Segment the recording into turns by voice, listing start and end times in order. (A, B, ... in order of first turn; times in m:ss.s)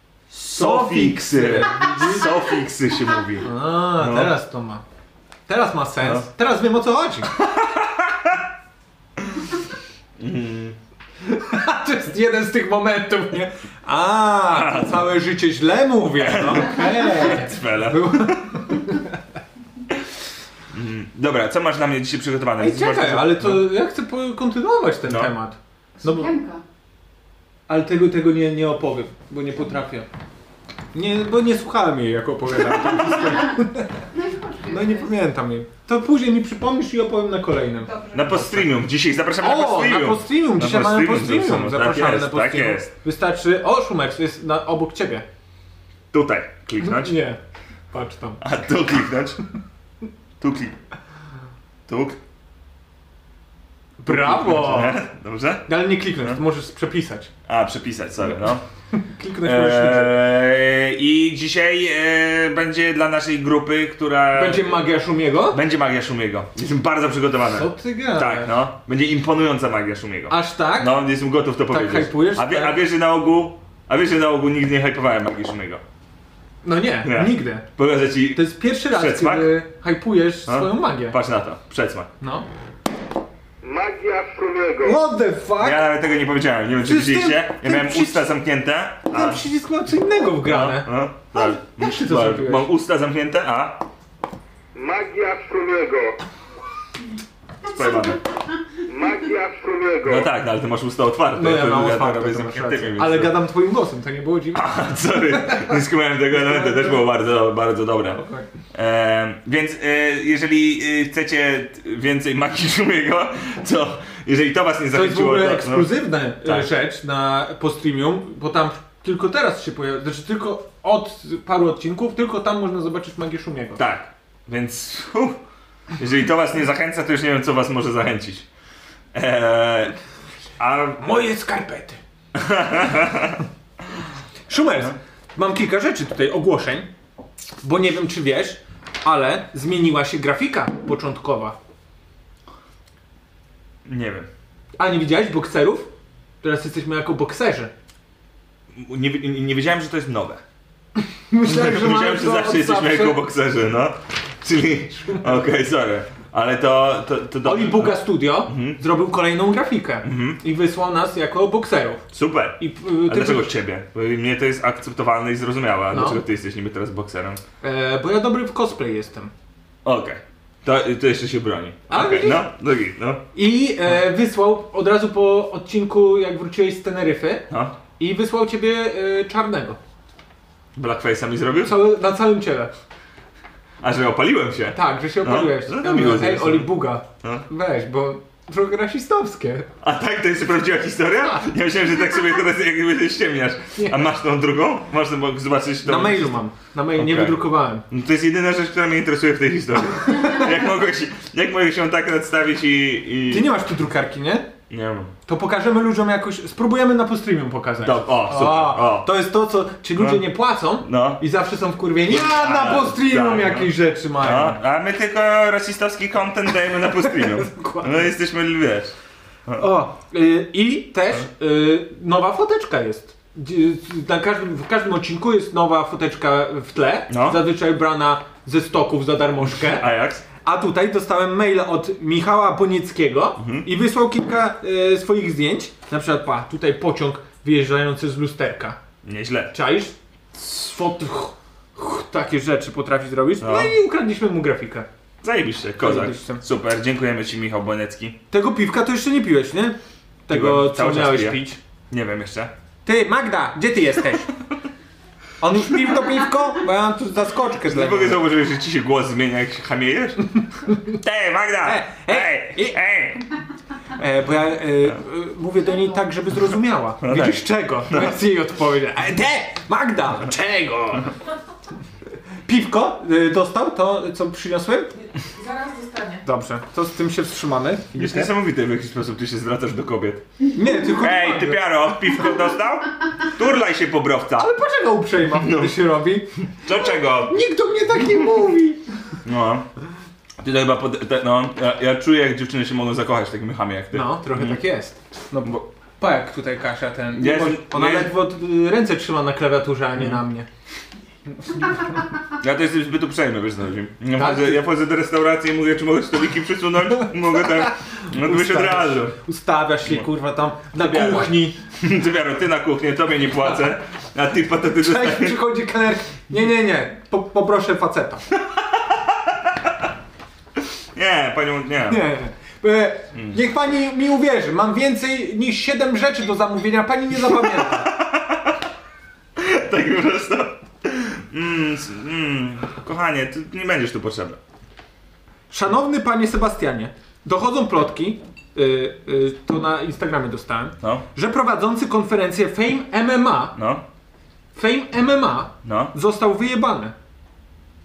0:00.3-0:04.4 A
0:00.6-0:02.3 B
0:03.4-0:04.8 B
0:05.5-0:07.4 B
0:07.3-0:08.4 A
0:09.2-0:09.5 A
0:10.2-0:10.8 A
0:11.2-0:19.2 B
0:14.5-0:15.0 A
0:16.2-0:18.6 A
0:20.7-0:23.7 A
0:22.6-0:26.3 B
0:25.1-0:25.3 A
0:26.0-0:26.6 C
0:27.7-0:30.1 B
0:30.9-0:34.0 B
0:32.6-0:33.1 A
0:34.1-0:35.1 C
0:34.7-0:38.0 B
0:37.9-0:38.6 C
0:38.1-0:42.9 A
0:39.4-0:45.2 B
0:46.1-0:47.2 A
0:46.8-0:47.4 B
0:47.9-0:48.4 B
0:48.4-0:49.4 A
0:50.4-0:50.8 A
0:51.9-0:52.2 A
0:54.0-0:55.0 B
0:54.1-0:56.4 A
0:55.7-0:57.3 B
0:57.5-0:58.6 A
0:58.9-1:00.2 B
0:59.4-1:04.8 A
1:04.3-1:05.6 B
1:05.5-1:15.8 A
1:07.5-1:08.5 B
1:10.3-1:11.0 B
1:11.7-1:12.8 B
1:16.6-1:17.7 B
1:17.0-1:19.5 A
1:18.3-1:21.2 B
1:20.5-1:22.1 A
1:22.2-1:22.5 B
1:23.6-1:25.0 D
1:24.8-1:25.9 B
1:25.6-1:29.4 A
1:26.8-1:28.3 B
1:29.1-1:32.7 B
1:30.4-1:33.8 A
1:34.8-1:36.2 D
1:37.6-1:38.2 A
1:38.9-1:40.3 D
1:40.0-1:43.4 A
1:41.3-1:44.7 B
1:44.5-1:55.9 A
1:46.4-1:47.0 B
1:48.2-1:48.4 B
1:54.9-2:03.8 B
2:03.8-2:05.4 A
2:06.0-2:08.5 A
2:09.1-2:10.0 A
2:10.6-2:11.1 A
2:11.0-2:12.0 B
2:12.3-2:13.4 A
2:14.5-2:16.9 B
2:17.6-2:21.6 B
2:23.8-2:24.3 A
2:24.8-2:25.9 B
2:26.4-2:27.7 B
2:28.7-2:30.4 A
2:31.3-2:33.2 B
2:31.4-2:38.8 A
2:35.0-2:35.4 B
2:37.4-2:42.0 B
2:40.0-2:40.4 A
2:42.1-2:47.4 A
2:42.6-2:43.5 B
2:45.9-2:46.2 B
2:47.6-2:49.3 B
2:49.8-2:53.2 A
2:51.9-2:52.5 B
2:53.4-2:57.5 B
2:57.5-2:57.8 A
2:58.0-2:59.8 B
3:00.8-3:01.8 A
3:01.6-3:02.7 B
3:03.8-3:07.5 A
3:04.7-3:09.7 B
3:09.8-3:16.4 A
3:13.8-3:14.0 B
3:15.8-3:17.8 B
3:17.0-3:23.5 A
3:23.3-3:24.5 B
3:24.7-3:25.1 A
3:25.3-3:34.6 B
3:27.8-3:29.1 A
3:30.0-3:31.2 A
3:32.1-3:39.0 A
3:37.3-3:38.1 B
3:39.6-3:49.9 B
3:47.1-3:47.4 A
3:49.6-3:50.2 A
3:50.4-3:58.8 B
3:53.4-3:53.7 A
3:59.0-3:59.5 A
3:59.5-4:04.9 B
4:03.4-4:03.7 A
4:05.2-4:08.2 A
4:05.8-4:06.4 B
4:08.3-4:11.6 B
4:10.3-4:12.5 A
4:12.8-4:14.3 B
4:15.4-4:18.2 B
4:17.7-4:20.2 A
4:20.9-4:23.2 A
4:21.6-4:22.8 B
4:24.0-4:31.1 B
4:27.0-4:28.1 A
4:32.5-4:38.3 B
4:37.9-4:40.2 A
4:40.5-4:41.7 B
4:40.9-4:44.5 A
4:44.4-4:48.8 B
4:45.3-4:45.8 A
4:46.5-4:47.4 A
4:49.2-4:49.7 A
4:50.4-4:54.6 A
4:53.9-5:00.5 B
4:57.1-4:58.1 A
5:00.0-5:00.2 A
5:02.4-5:09.2 A
5:04.1-5:04.6 B
5:08.1-5:11.6 B
5:10.7-5:15.4 A
5:14.8-5:18.2 B
5:18.4-5:19.4 A
5:21.0-5:22.0 A
5:21.9-5:27.9 B
5:27.3-5:28.6 A
5:29.4-5:34.4 A
5:35.5-5:43.6 B
5:43.6-5:43.8 A
5:44.6-5:47.0 B
5:45.6-5:45.9 A